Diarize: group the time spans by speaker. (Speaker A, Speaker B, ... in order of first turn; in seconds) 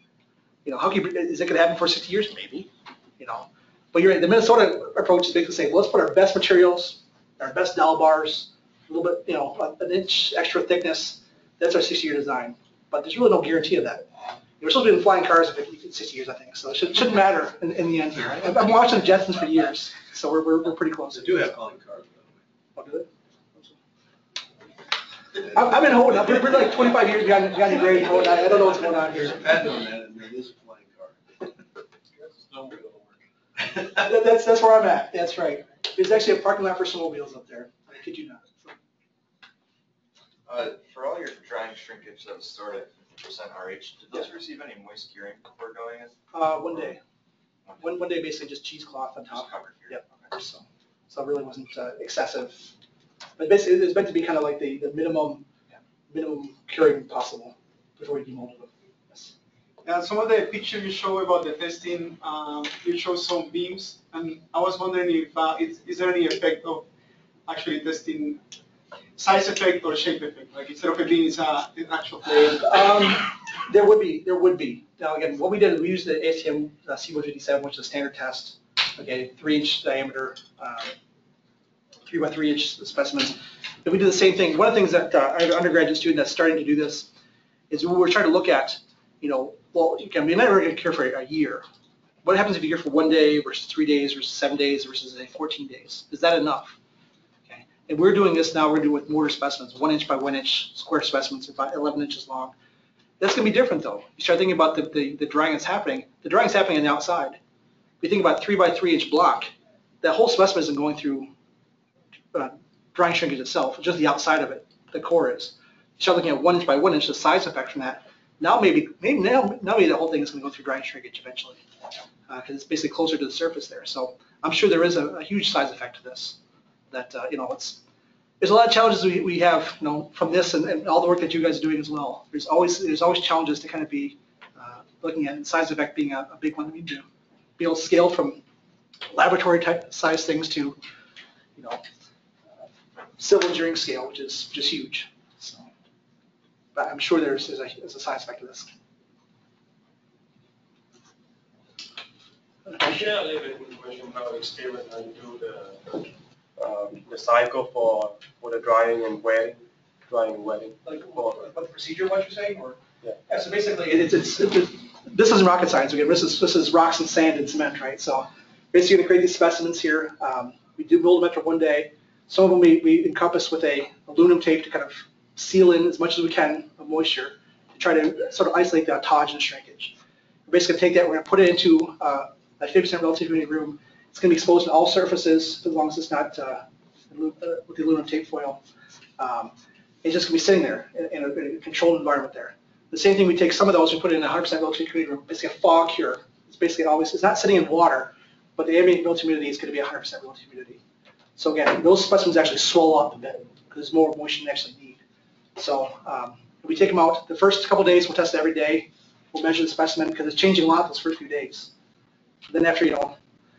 Speaker A: 0.6-21.5, 22.8-23.7, 25.4-29.4, 33.7-38.7, 46.3-47.0, 47.8-52.7, 53.4-55.5, 56.1-59.3, 72.6-80.9, 82.1-87.1, 87.7-91.6, 92.2-96.8, 97.5-102.5, 103.2-107.4, 108.0-109.5, 110.0-111.3, 112.3-121.6, 122.3-126.4, 126.9-127.8, 128.4-137.1, 137.6-138.4, 139.1-140.8, 141.6-141.8, 143.2-145.7, 146.7-148.7, 160.8-179.9, 180.5-188.6, 189.2-200.8, 201.4-205.0, 205.6-211.7, 212.5-213.2
Speaker B: 21.1-22.2, 28.3-31.5, 32.2-33.2
Speaker C: 40.5-46.2, 49.5-50.1
Speaker D: 59.8-66.9, 67.5-68.4, 69.2-72.9
Speaker E: 152.7-161.5